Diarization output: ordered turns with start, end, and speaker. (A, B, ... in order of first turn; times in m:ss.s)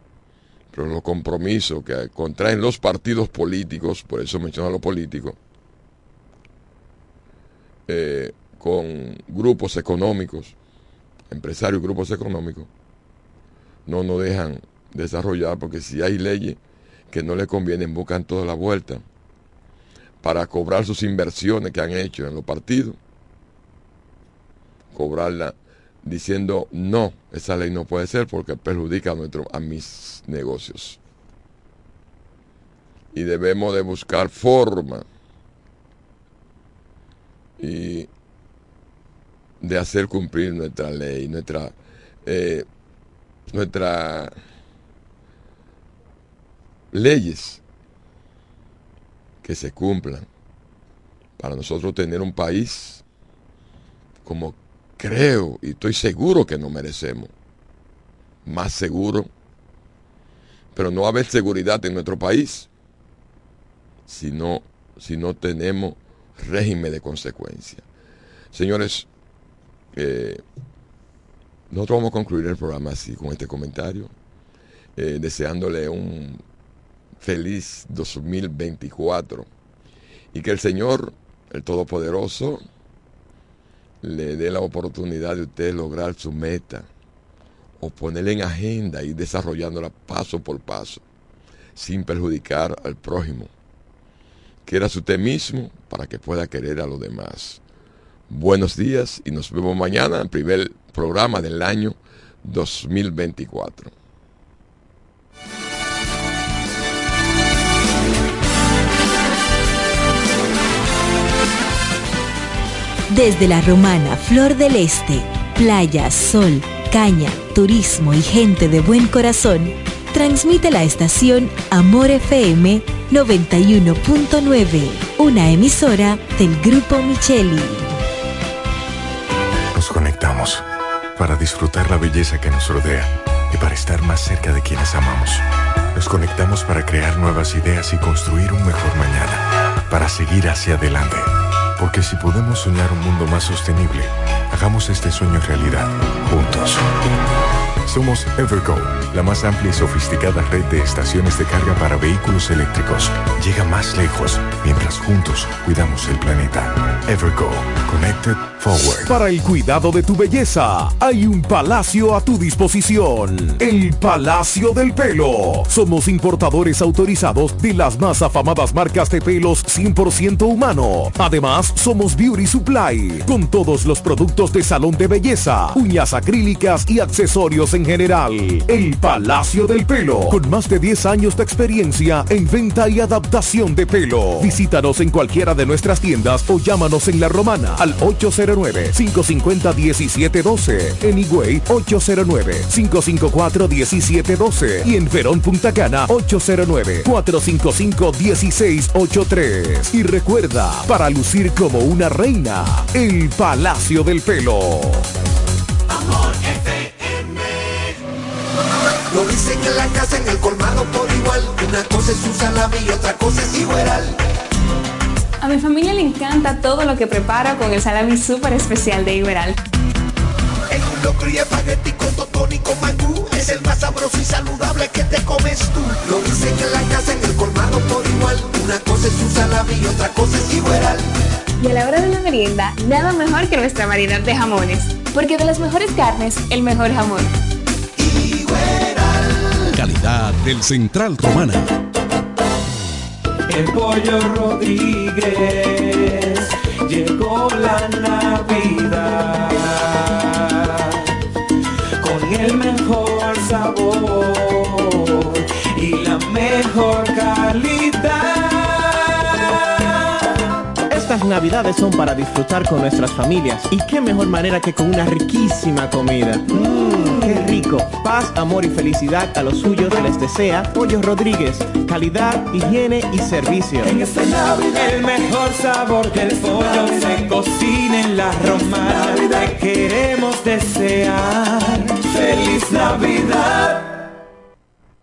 0:00.7-0:05.4 A
0:07.9-0:10.6 A
0:11.3-0:12.7 A
0:13.8-0:16.6 A
0:17.1-0:19.0 A
0:20.2-0:23.0 A
0:24.9-0:31.0 A
0:33.1-0:35.0 A
0:37.6-0:38.1 A
0:39.6-0:42.7 A
0:43.5-0:44.3 A
0:46.9-0:47.6 A
0:49.4-0:50.3 A
0:51.4-0:53.0 A
0:54.2-0:57.3 A
0:58.4-0:59.3 A
1:00.7-1:02.7 A
1:04.1-1:07.8 A
1:08.5-1:09.1 A
1:09.9-1:10.4 A
1:11.7-1:14.1 A
1:15.0-1:16.4 A
1:17.2-1:19.5 A
1:20.3-1:22.6 A
1:24.0-1:26.9 A
1:27.8-1:31.0 A
1:31.8-1:33.5 A
1:34.6-1:37.6 A
1:38.3-1:43.9 A
1:53.1-2:07.9 B
2:09.7-2:10.6 C
2:11.2-2:15.4 C
2:16.0-2:26.8 C
2:27.9-2:39.1 C
2:39.0-3:25.0 D
3:25.9-3:28.0 E
3:29.1-3:34.2 E
3:35.4-3:39.6 F
3:40.7-3:51.0 E
3:51.6-3:57.3 F
3:58.0-3:59.7 E
3:59.8-4:01.8 G
4:03.5-4:11.1 H
4:12.0-4:20.3 H
4:20.9-4:33.9 I
4:27.0-4:27.3 H
4:33.8-4:44.0 H